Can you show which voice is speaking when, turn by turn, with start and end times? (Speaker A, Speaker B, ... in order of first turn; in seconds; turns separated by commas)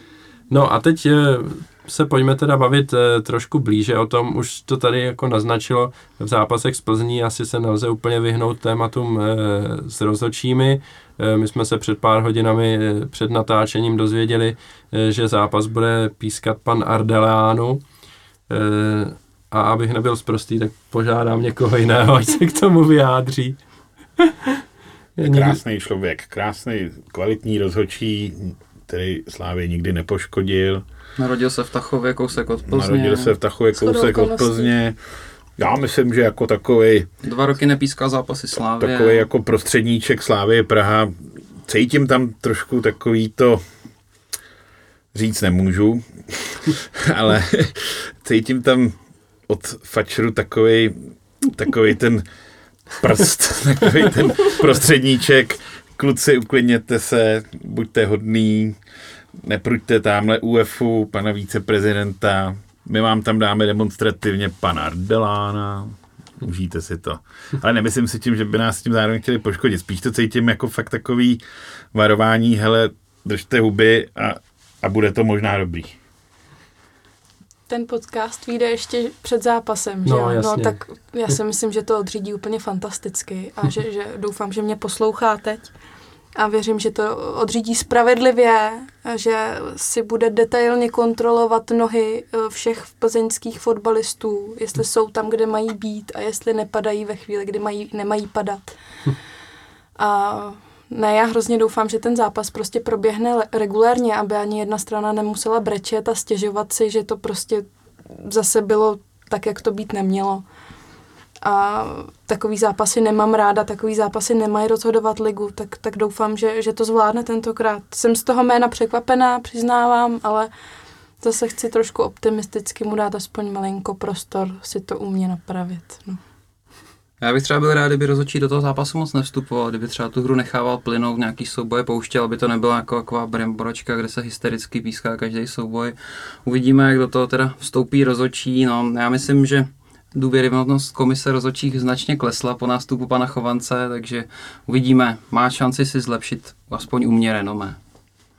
Speaker A: 0.5-17.8, Speaker A: 18.5-23.6, Speaker A: 24.2-24.6, Speaker A: 25.2-25.6, Speaker B: 25.2-30.8, Speaker C: 31.2-33.4, Speaker B: 32.7-35.0, Speaker D: 33.8-34.7, Speaker B: 35.6-37.1, Speaker C: 37.2-39.3, Speaker B: 38.8-43.6, Speaker B: 45.1-49.0, Speaker B: 49.5-52.2, Speaker B: 53.0-58.8, Speaker B: 59.4-71.4, Speaker B: 71.9-76.0, Speaker D: 77.7-85.7, Speaker A: 80.0-80.8, Speaker D: 86.3-98.8, Speaker D: 100.0-110.4, Speaker D: 111.4-120.5, Speaker D: 121.2-126.2, Speaker C: 127.2-147.8